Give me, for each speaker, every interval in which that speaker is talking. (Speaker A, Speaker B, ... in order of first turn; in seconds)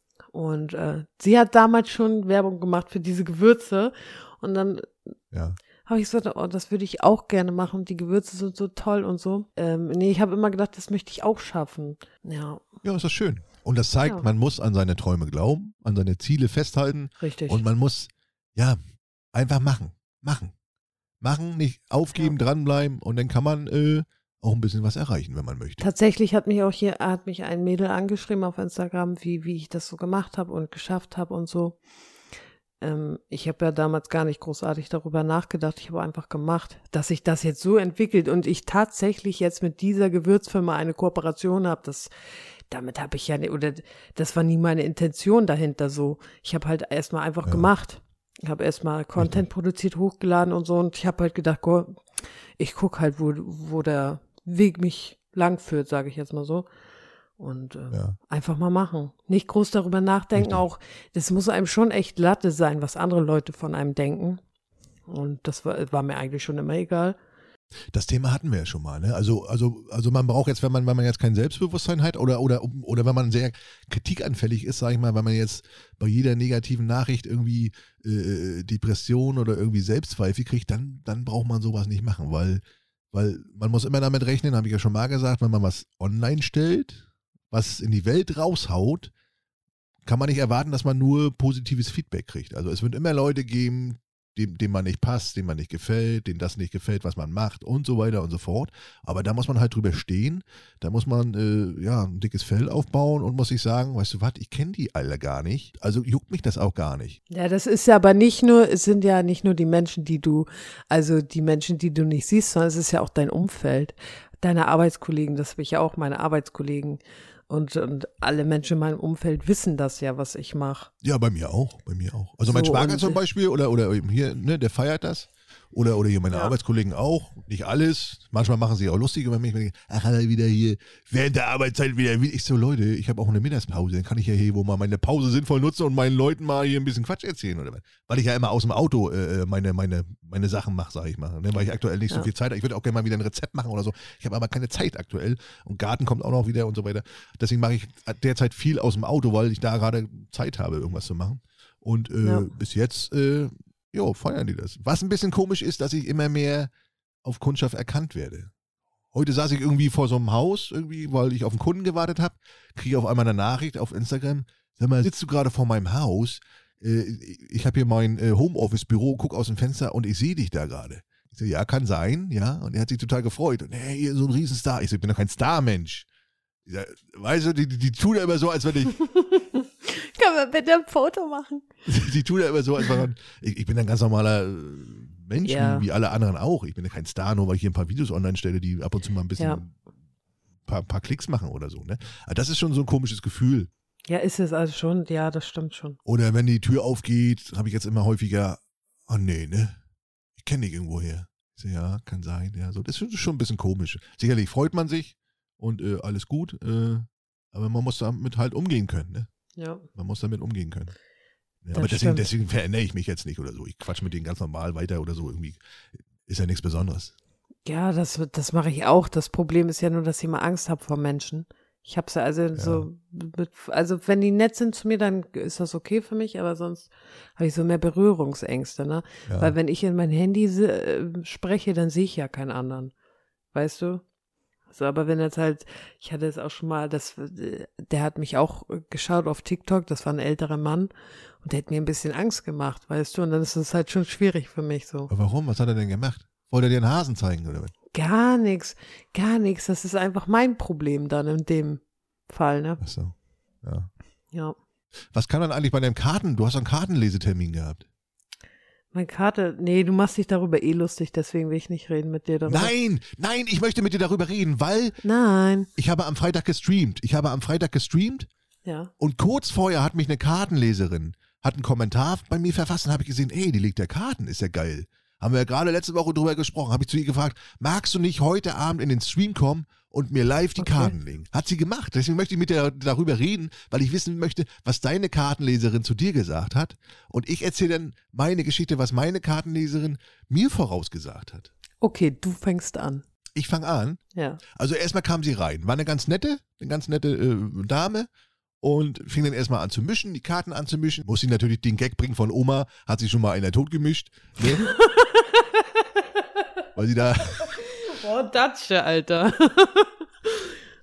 Speaker A: 0.3-5.1, 5.8-12.6, 17.2-17.6, 25.8-31.8, 32.8-42.1, 42.7-52.0, 52.6-56.7, 57.4-64.4, 65.1-67.2, 107.3-120.9, 122.5-123.2, 126.3-126.5, 152.2-152.5, 179.0-181.7, 185.4-185.9, 189.4-189.6, 194.1-196.0, 209.6-209.9, 211.7-212.3, 217.7-232.9, 233.5-234.0, 234.7-240.9, 241.4-245.1, 247.9-252.8, 258.9-262.7, 265.0-265.7, 268.6-268.9, 280.6-280.9, 291.8-293.0, 294.1-294.4, 304.5-305.6, 307.4-310.5
Speaker B: 5.3-5.6, 12.8-18.8, 19.3-20.5, 21.2-25.9, 49.2-49.5, 57.9-58.2, 60.4-60.6, 67.9-89.1, 90.0-107.2, 121.0-156.7, 157.2-158.5, 159.1-176.1, 176.7-179.0, 181.9-189.8, 190.7-193.7, 196.1-199.8, 200.4-209.3, 209.9-210.9, 211.6-217.1, 222.6-222.9, 229.3-229.6, 245.1-247.7, 252.8-253.9, 255.1-257.9, 262.5-265.0, 265.8-268.3, 269.0-291.5, 293.4-294.0, 294.5-298.1, 298.6-304.7, 306.8-307.5